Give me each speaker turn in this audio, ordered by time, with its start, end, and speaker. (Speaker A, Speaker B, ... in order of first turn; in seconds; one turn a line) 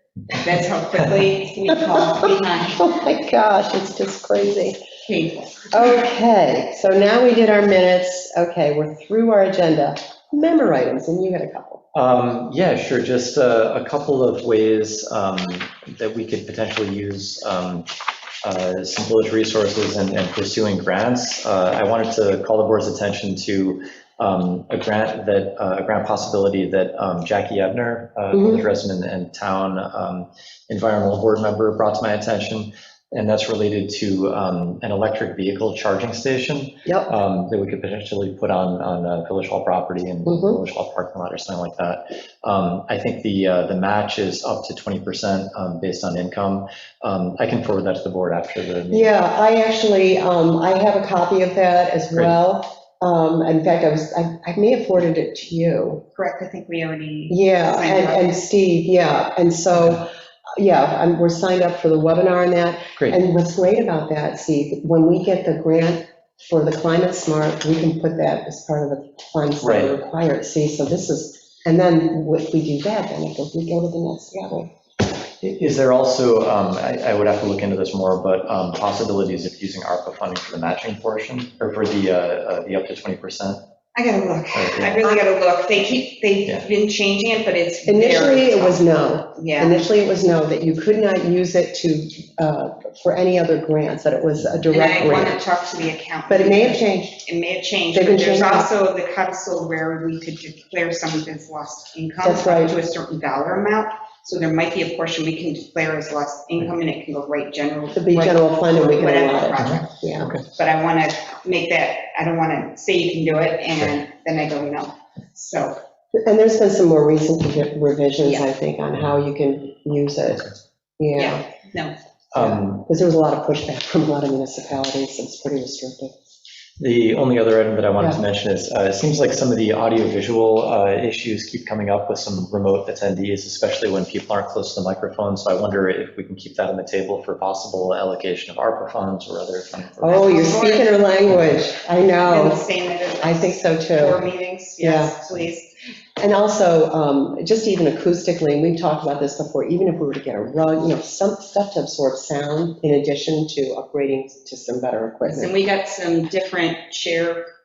Speaker A: 0.3-2.9
Speaker B: 2.8-4.8
Speaker A: 5.1-6.1
Speaker B: 5.7-11.8
Speaker C: 11.9-17.9
Speaker C: 18.4-49.1
Speaker B: 28.3-28.6
Speaker B: 36.9-37.1
Speaker B: 40.2-40.6
Speaker B: 48.9-56.0
Speaker A: 56.1-58.3
Speaker B: 57.3-74.7
Speaker C: 59.7-60.0
Speaker C: 69.6-70.0
Speaker C: 75.4-83.6
Speaker A: 84.0-89.8
Speaker C: 84.5-85.1
Speaker B: 87.9-95.4
Speaker A: 94.7-109.9
Speaker B: 96.3-97.2
Speaker B: 97.9-98.7
Speaker B: 102.2-102.8
Speaker B: 107.9-110.3
Speaker C: 109.6-110.5
Speaker A: 110.5-115.8
Speaker B: 116.2-121.4
Speaker A: 118.2-118.5
Speaker A: 121.2-122.0
Speaker C: 122.3-122.8
Speaker B: 122.4-126.1
Speaker C: 126.8-140.4
Speaker B: 140.0-142.6
Speaker A: 140.1-141.0
Speaker A: 142.2-145.7
Speaker B: 143.2-144.2
Speaker B: 144.8-145.2
Speaker B: 146.2-155.5
Speaker A: 155.3-157.5